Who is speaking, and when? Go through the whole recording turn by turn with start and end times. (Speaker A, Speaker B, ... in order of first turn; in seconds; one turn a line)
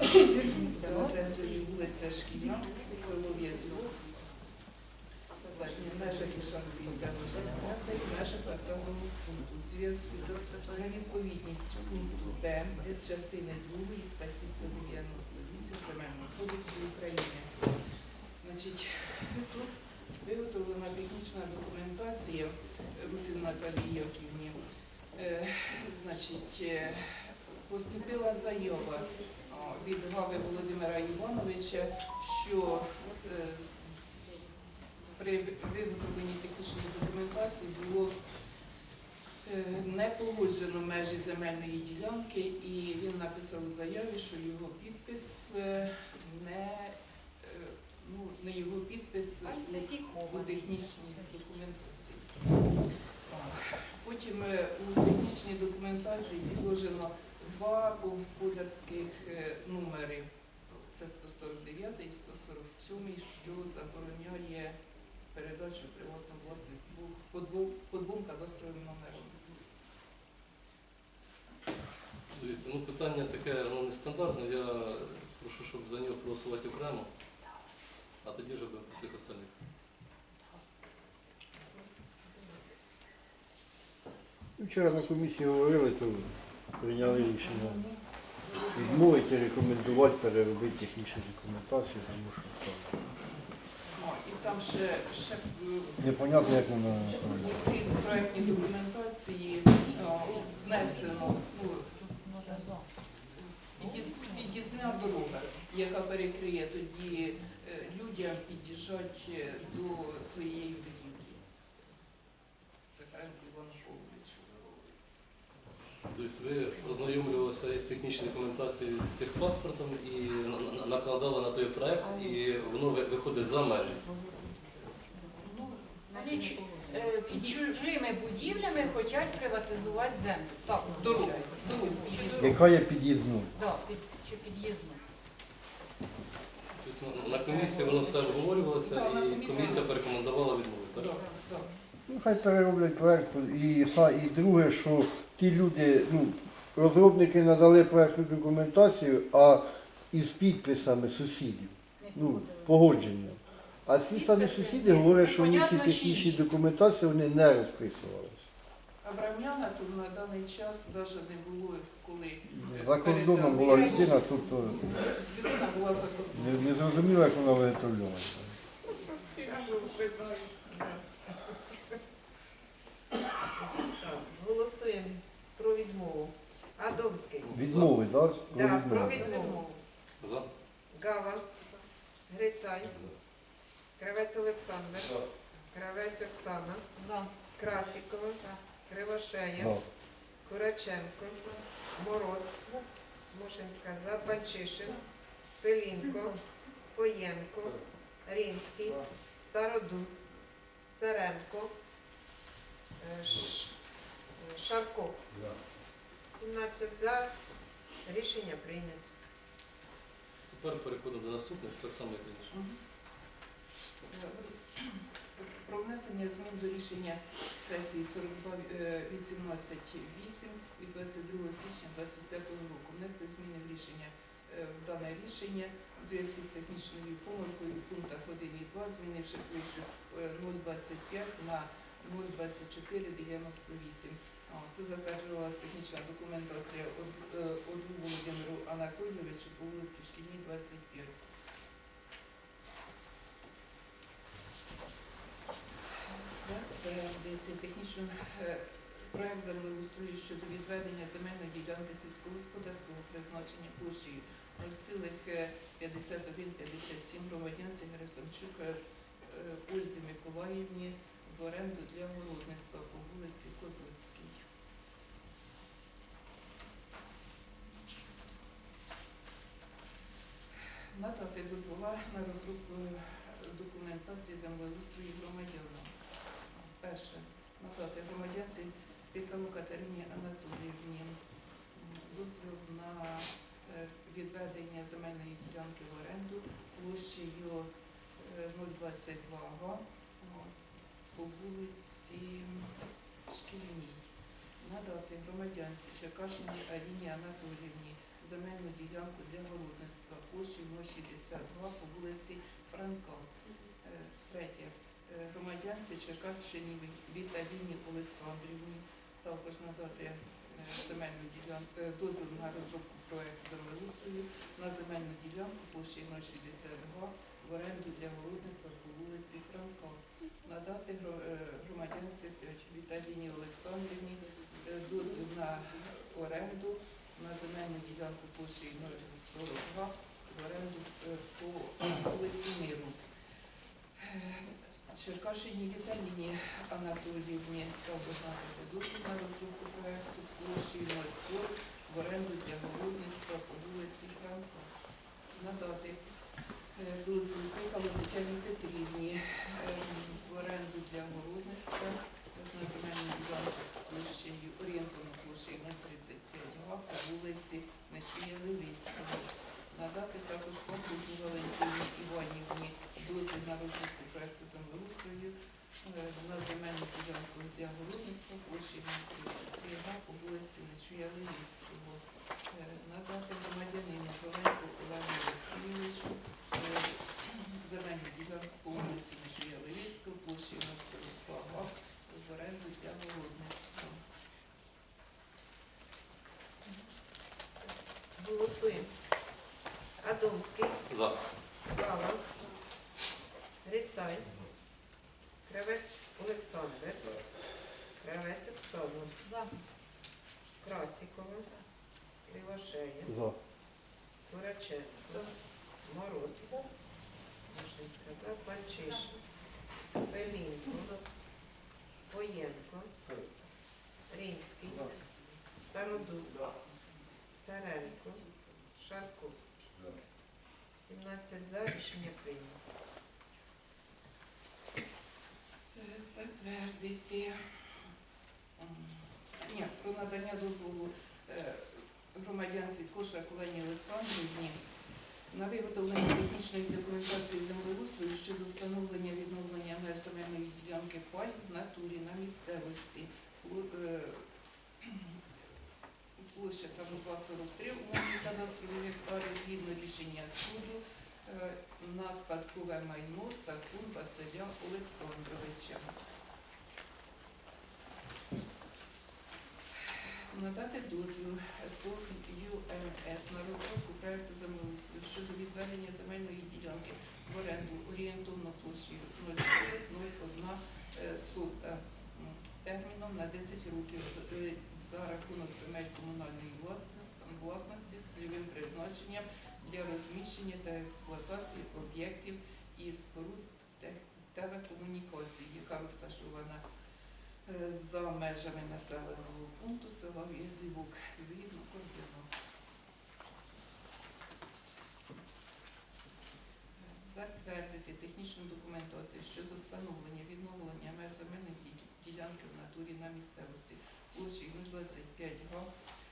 Speaker A: 0.4-4.0
Speaker A: 5.5-17.6
Speaker A: 18.4-19.7
Speaker A: 20.2-24.6
Speaker A: 25.1-33.7
Speaker A: 35.1-38.2
Speaker A: 39.4-52.3
Speaker B: 49.5-50.7
Speaker A: 53.3-60.3
Speaker A: 60.9-64.8
Speaker A: 65.3-69.4
Speaker C: 72.3-77.1
Speaker C: 78.2-79.5
Speaker D: 84.6-87.8
Speaker A: 87.5-87.9
Speaker D: 88.7-92.9
Speaker A: 94.0-101.9
Speaker D: 96.0-97.7
Speaker A: 103.4-111.4
Speaker A: 112.9-114.9
Speaker C: 116.1-124.0
Speaker A: 125.4-125.9
Speaker B: 126.1-132.6
Speaker A: 131.0-132.5
Speaker D: 132.4-133.5
Speaker B: 133.5-135.0
Speaker C: 136.8-141.1
Speaker A: 137.7-138.0
Speaker A: 138.8-139.9
Speaker A: 141.0-141.7
Speaker D: 142.1-158.4
Speaker B: 152.1-152.6
Speaker B: 154.1-156.4
Speaker A: 159.0-164.3
Speaker D: 162.5-164.9
Speaker B: 163.6-164.2
Speaker A: 164.9-167.0
Speaker D: 166.3-168.6
Speaker E: 169.1-171.0
Speaker E: 173.6-177.6
Speaker C: 177.5-177.9
Speaker D: 177.5-179.3
Speaker E: 178.5-179.8
Speaker B: 179.2-179.7
Speaker C: 180.2-180.5
Speaker E: 180.9-181.5
Speaker E: 182.3-183.0
Speaker E: 184.0-185.2
Speaker E: 185.7-186.9
Speaker B: 187.0-187.3
Speaker E: 187.6-189.8
Speaker D: 189.6-189.8
Speaker E: 190.4-191.4
Speaker E: 191.9-192.6
Speaker E: 193.3-195.0
Speaker E: 195.6-196.4
Speaker E: 196.9-200.2
Speaker E: 200.9-201.8
Speaker E: 203.0-203.7
Speaker E: 204.4-205.2
Speaker D: 205.3-205.6
Speaker E: 206.3-207.3
Speaker E: 208.0-209.0
Speaker C: 210.5-212.5
Speaker A: 212.5-212.8
Speaker A: 214.1-241.1
Speaker A: 246.1-264.4
Speaker A: 270.9-275.9
Speaker A: 276.6-281.2
Speaker A: 281.7-290.5
Speaker A: 291.1-292.7
Speaker A: 293.3-294.0
Speaker A: 294.6-303.3
Speaker A: 303.8-333.0
Speaker A: 334.0-344.7
Speaker A: 345.3-346.0
Speaker A: 346.7-384.0
Speaker E: 387.6-388.9
Speaker E: 390.0-390.8
Speaker C: 390.9-391.2
Speaker E: 391.7-392.3
Speaker E: 393.6-394.3
Speaker E: 395.4-397.0
Speaker E: 398.0-399.1
Speaker B: 399.2-399.5
Speaker E: 400.6-401.5
Speaker E: 402.3-403.1
Speaker D: 403.1-403.4
Speaker E: 404.3-405.3
Speaker E: 405.8-406.5
Speaker E: 407.5-409.1
Speaker E: 410.0-410.9
Speaker E: 412.1-412.9
Speaker E: 414.1-414.9
Speaker D: 414.7-414.9
Speaker E: 415.6-416.4
Speaker E: 417.4-419.4
Speaker E: 420.8-422.6
Speaker A: 425.7-427.4
Speaker A: 428.6-434.6
Speaker A: 435.3-444.2
Speaker A: 444.8-445.2
Speaker A: 446.2-456.0
Speaker A: 459.9-486.6
Speaker A: 487.5-492.3
Speaker A: 496.8-505.7